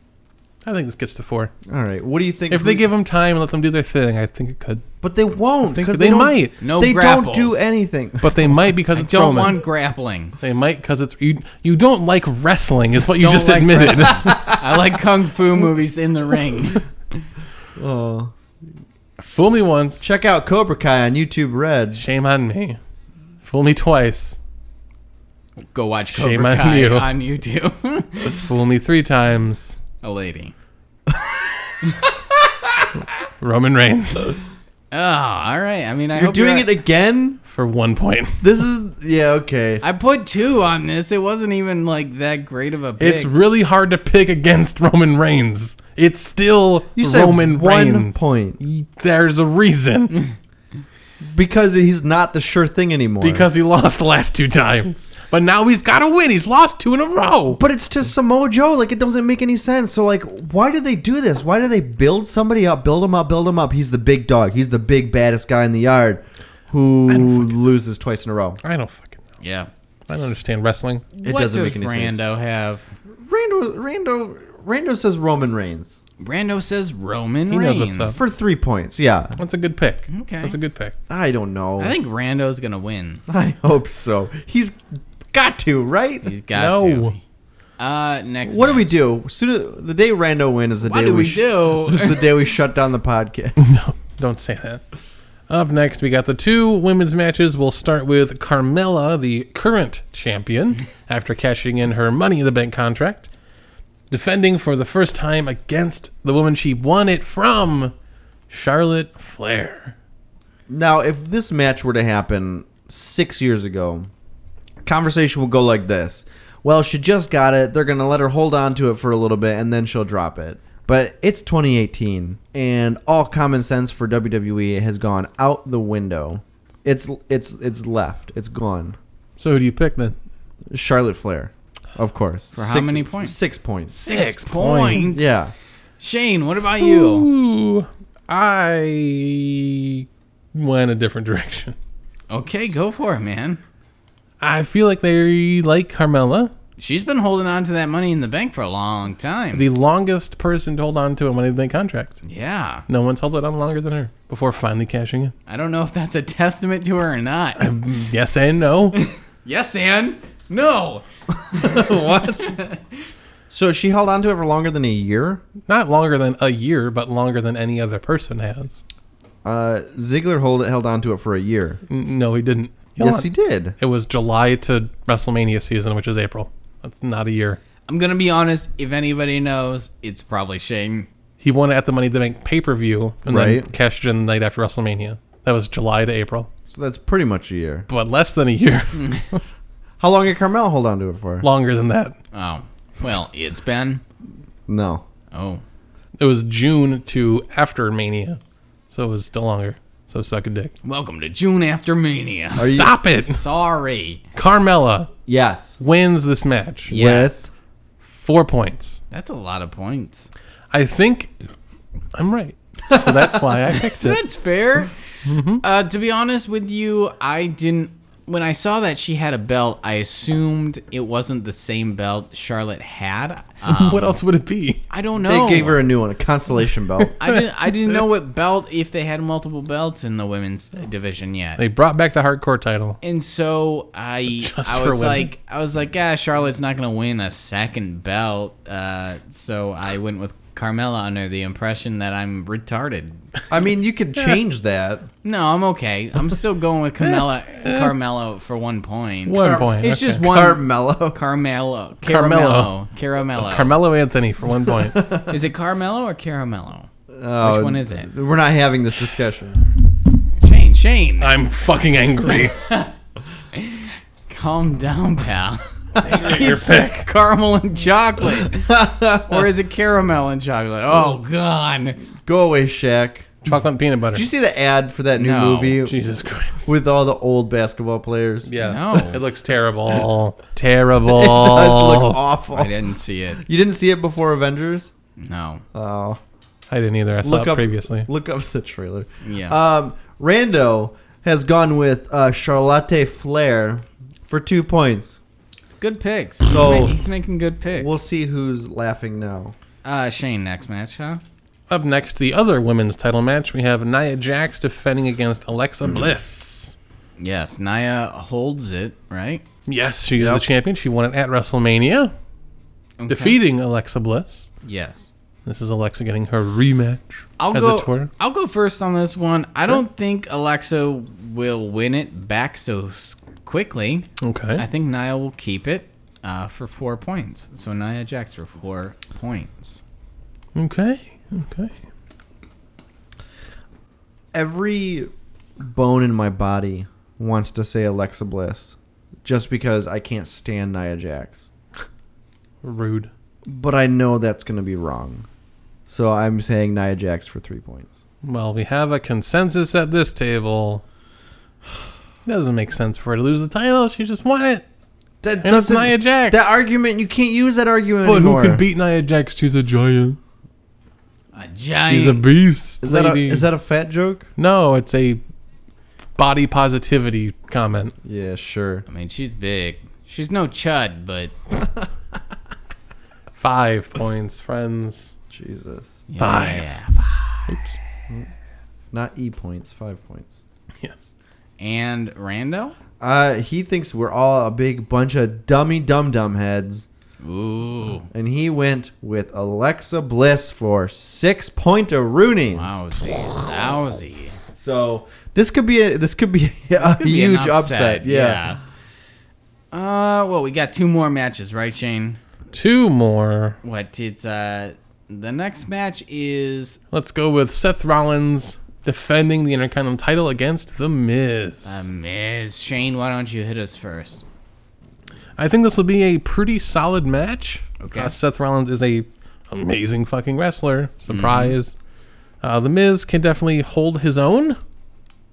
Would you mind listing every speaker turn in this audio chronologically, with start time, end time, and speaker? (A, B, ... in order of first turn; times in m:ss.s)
0:00.6-0:01.5 A
0:01.7-0:02.9 B
0:02.5-0:04.8 A
0:05.0-0:08.5 B
0:05.7-0:06.6 A
0:06.6-0:07.6 C
0:08.2-0:09.6 A
0:08.9-0:10.4 C
0:10.4-0:14.4 A
0:13.2-0:17.2 C
0:14.2-0:14.8 B
0:17.8-0:18.3 B
0:19.2-0:20.1 A
0:20.0-0:22.0 B
0:22.0-0:22.8 A
0:23.4-0:24.4 A
0:25.6-0:28.4 C
0:26.1-0:27.1 A
0:28.3-0:29.8 A
0:30.0-0:30.5 C
0:31.8-0:32.1 C
0:33.4-0:34.4 A
0:34.9-0:36.7 C
0:36.1-0:37.4 B
0:37.5-0:38.4 A
0:38.4-0:39.8 B
0:39.8-0:43.3 C
0:43.0-0:50.2 A
0:47.0-0:48.6 B
0:51.3-0:53.5 B
0:53.2-0:57.6 A
0:57.5-1:08.6 B
1:07.1-1:07.6 A
1:08.6-1:09.2 A
1:09.4-1:09.7 C
1:10.1-1:11.0 A
1:11.2-1:12.9 C
1:11.2-1:12.2 B
1:13.2-1:16.0 B
1:16.2-1:18.2 C
1:17.5-1:18.2 A
1:18.2-1:19.4 B
1:19.4-1:20.9 A
1:20.1-1:20.6 C
1:21.1-1:21.9 B
1:21.8-1:23.2 C
1:23.3-1:26.3 B
1:26.2-1:27.2 C
1:26.5-1:27.2 A
1:27.8-1:28.9 C
1:28.4-1:33.7 B
1:30.8-1:32.3 C
1:33.6-1:34.8 A
1:35.5-1:43.3 A
1:44.1-1:47.9 A
1:48.5-1:49.9 A
1:50.7-1:54.1 B
1:54.8-2:09.0 B
2:09.4-2:10.2 A
2:10.7-2:13.9 B
2:12.6-2:13.3 C
2:13.9-2:15.2 A
2:14.0-2:15.4 C
2:15.1-2:15.5 B
2:16.0-2:17.3 C
2:16.8-2:21.8 A
2:22.3-2:23.6 C
2:24.4-2:26.5 A
2:26.8-2:29.6 C
2:29.5-2:32.2 A
2:32.2-2:32.8 C
2:32.9-2:35.3 A
2:35.5-2:37.6 C
2:37.6-2:39.0 A
2:38.9-2:42.8 C
2:41.5-2:42.6 B
2:43.5-2:45.4 B
2:45.7-2:48.8 A
2:49.4-2:51.8 B
2:51.9-2:53.3 A
2:53.0-2:53.8 B
2:53.8-2:57.6 A
2:57.9-3:01.1 C
3:01.4-3:06.5 A
3:03.3-3:03.7 B
3:06.7-3:07.9 B
3:07.9-3:09.4 A
3:08.9-3:09.2 C
3:10.0-3:11.5 B
3:11.4-3:12.2 A
3:12.3-3:14.0 C
3:14.7-3:15.0 B
3:15.3-3:15.6 C
3:16.2-3:20.7 A
3:20.8-3:22.7 C
3:22.6-3:22.9 B
3:22.6-3:23.4 A
3:23.3-3:24.2 C
3:24.3-3:25.1 A
3:25.3-3:25.8 B
3:25.8-3:27.0 A
3:26.9-3:27.4 C
3:26.9-3:27.5 B
3:28.0-3:29.0 A
3:29.1-3:30.3 C
3:30.7-3:31.3 A
3:32.1-3:34.2 A
3:32.9-3:33.3 B
3:33.9-3:35.0 C
3:35.2-3:35.6 A
3:35.6-3:44.2 C
3:43.7-3:44.8 A
3:44.9-3:45.8 C
3:45.2-3:47.2 B
3:47.0-3:48.0 A
3:47.2-3:51.6 C
3:51.6-3:53.0 A
3:53.0-4:03.2 C
3:54.3-3:55.3 A
4:03.5-4:05.1 B
4:05.2-4:13.7 C
4:07.0-4:07.9 A
4:09.2-4:10.2 A
4:09.4-4:11.2 B
4:12.0-4:12.7 A
4:13.3-4:15.0 A
4:14.8-4:15.4 B
4:15.3-4:16.9 C
4:17.2-4:19.6 B
4:17.4-4:18.1 C
4:20.4-4:21.3 C
4:21.2-4:22.6 A
4:22.4-4:22.9 C
4:23.5-4:32.0 C
4:26.0-4:27.1 A
4:28.6-4:29.5 B
4:32.2-4:33.5 B
4:33.4-4:34.2 A
4:34.1-4:36.0 B
4:35.1-4:35.8 C
4:35.8-4:36.7 A
4:36.7-4:38.5 B
4:38.5-4:42.2 A
4:38.6-4:39.2 C
4:41.0-4:42.7 B
4:42.5-4:43.4 C
4:43.4-4:44.9 B
4:45.2-4:45.6 C
4:45.7-4:46.2 B
4:46.7-4:48.1 A
4:47.2-4:55.2 B
4:49.2-4:49.6 C
4:55.8-4:57.9 C
4:56.4-4:57.0 B
4:57.8-4:59.6 B
4:59.8-5:01.2 C
5:01.7-5:06.7 A
5:07.2-5:09.4 C
5:09.6-5:12.1 A
5:10.2-5:10.4 B
5:13.0-5:13.4 C
5:13.1-5:14.5 A
5:14.6-5:15.1 C
5:15.4-5:18.1 A
5:17.4-5:29.8 C
5:24.2-5:24.6 A
5:30.5-5:31.7 A
5:34.3-5:41.5 B
5:42.6-5:43.1 A
5:43.5-5:45.3 B
5:45.9-5:47.9 B
5:48.2-5:50.8 A
5:52.2-5:54.6 A
5:55.2-5:58.6 B
5:55.4-5:56.4 A
5:58.0-6:00.2 A
6:01.3-6:02.2 C
6:01.8-6:03.4 A
6:02.8-6:04.3 B
6:04.4-6:05.2 A
6:06.2-6:07.9 A
6:08.0-6:08.8 B
6:08.9-6:11.3 C
6:13.3-6:15.1 A
6:15.3-6:16.0 B
6:16.1-6:17.6 C
6:16.2-6:16.8 A
6:17.5-6:17.8 A
6:18.9-6:20.4 B
6:21.6-6:22.8 C
6:23.0-6:26.8 B
6:27.2-6:28.1 C
6:28.1-6:32.8 B
6:32.5-6:34.4 C
6:34.5-6:38.5 B
6:36.8-6:38.6 C
6:39.7-6:42.2 C
6:42.5-6:43.6 A
6:43.6-6:46.8 C
6:46.9-6:51.8 A
6:51.6-6:54.2 C
6:55.4-7:01.7 A
6:57.8-6:58.1 C
7:01.1-7:01.6 C
7:02.4-7:04.6 A